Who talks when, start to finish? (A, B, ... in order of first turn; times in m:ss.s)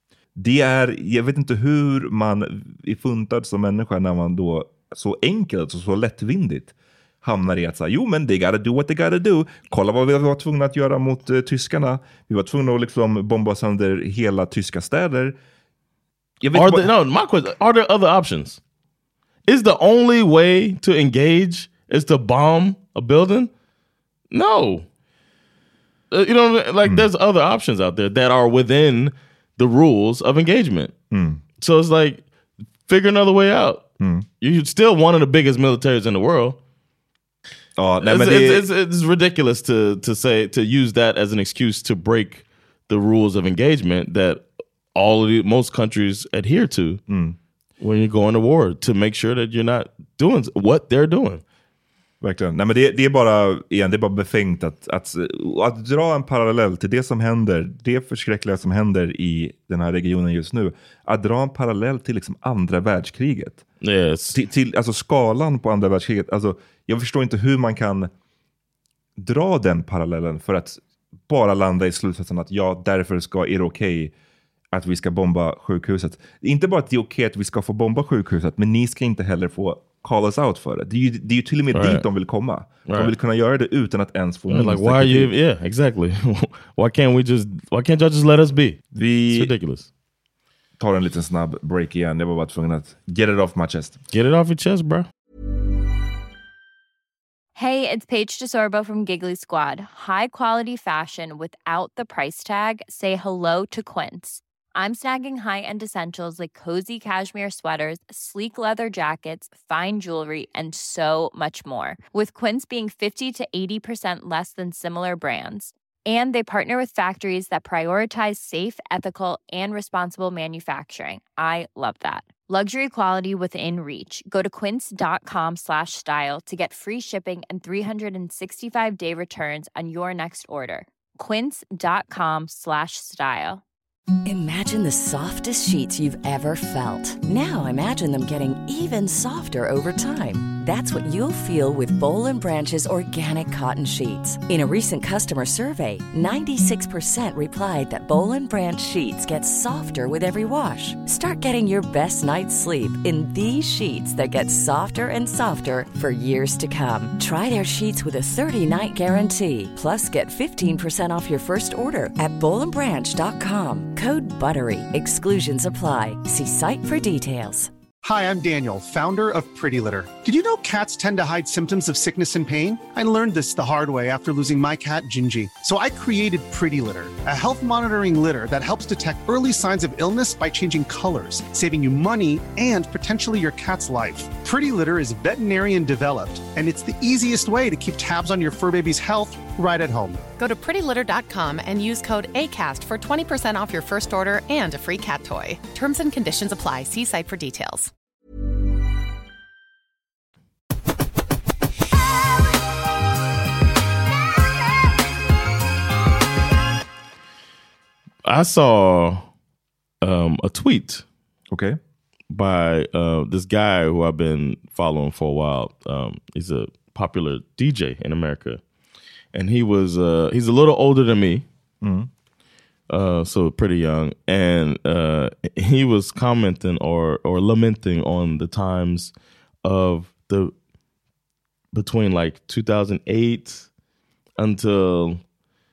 0:00.4-0:15.3 A
0:16.4-0:16.9 A
0:16.5-0:18.6 B
0:19.5-0:23.5 B
0:24.3-0:24.8 B
0:26.1-0:30.9 B
0:31.1-0:31.4 A
0:31.6-0:32.2 B
0:32.9-0:33.8 B
0:34.0-0:34.2 A
0:34.4-0:36.6 B
0:37.8-0:38.6 A
0:38.0-0:44.4 B
0:44.9-0:47.0 B
0:47.1-0:47.4 A
0:47.8-0:51.4 B
0:52.2-1:03.6 A
1:03.8-1:04.4 B
1:04.3-1:08.1 A
1:09.2-1:14.1 A
1:14.7-1:25.3 A
1:21.7-1:22.0 B
1:24.5-1:29.9 B
1:28.9-1:29.5 A
1:30.8-1:34.0 A
1:34.1-1:35.1 B
1:37.6-2:13.6 C
2:14.2-2:47.7 D
2:48.0-3:10.2 E
3:10.4-3:17.9 F
3:28.2-3:29.2 B
3:30.0-3:31.0 B
3:31.5-3:31.8 A
3:32.3-3:38.6 B
3:39.3-3:41.4 B
3:41.8-3:42.1 A
3:42.9-3:49.1 B
3:49.6-3:50.5 B
3:51.7-3:53.7 B
3:54.4-3:55.2 B